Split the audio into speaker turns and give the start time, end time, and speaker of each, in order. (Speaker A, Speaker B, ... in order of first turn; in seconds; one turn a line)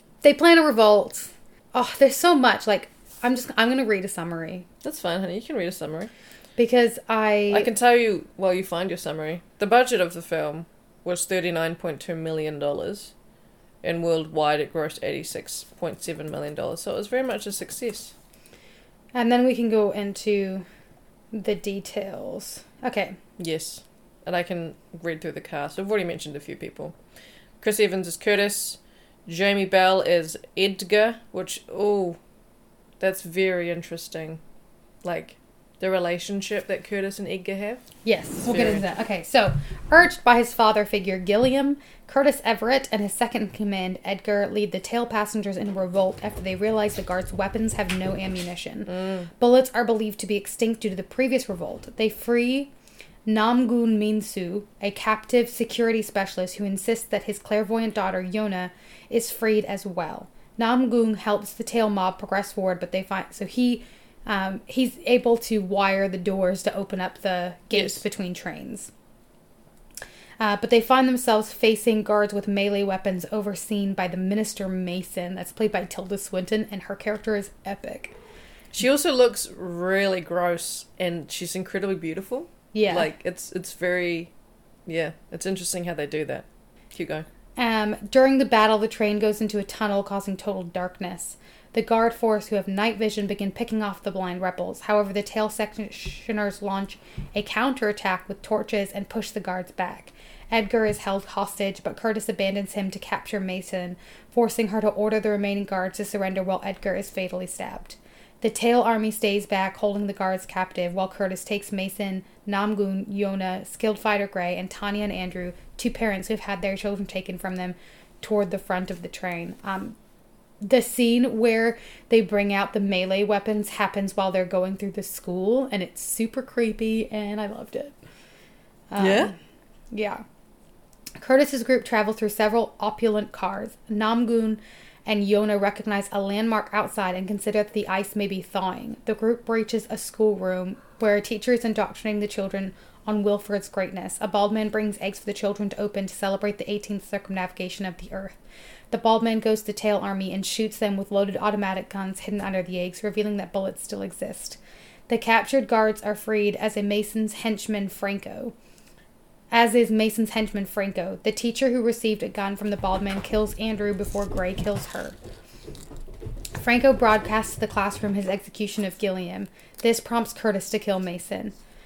Speaker A: 0.2-4.7
Speaker B: 4.8-6.1
Speaker A: 6.6-7.7
Speaker B: 7.5-13.1
Speaker B: 13.8-18.1
Speaker A: 19.1-20.7
Speaker A: 21.3-23.2
Speaker B: 23.4-27.0
Speaker B: 27.6-32.2
Speaker B: 33.0-34.4
Speaker B: 35.0-37.8
Speaker A: 38.0-52.7
Speaker B: 38.4-38.9
Speaker B: 48.9-49.3
Speaker A: 53.3-68.9
Speaker B: 67.7-68.0
Speaker A: 70.4-78.1
Speaker B: 78.7-84.3
Speaker A: 82.7-83.1
Speaker B: 84.9-87.3
Speaker A: 87.6-120.0
Speaker A: 120.6-128.0
Speaker A: 128.9-129.4
Speaker B: 129.0-129.3
Speaker A: 129.9-130.2
Speaker A: 131.2-148.4
Speaker A: 148.9-158.5
Speaker A: 159.5-165.2
Speaker A: 166.6-171.6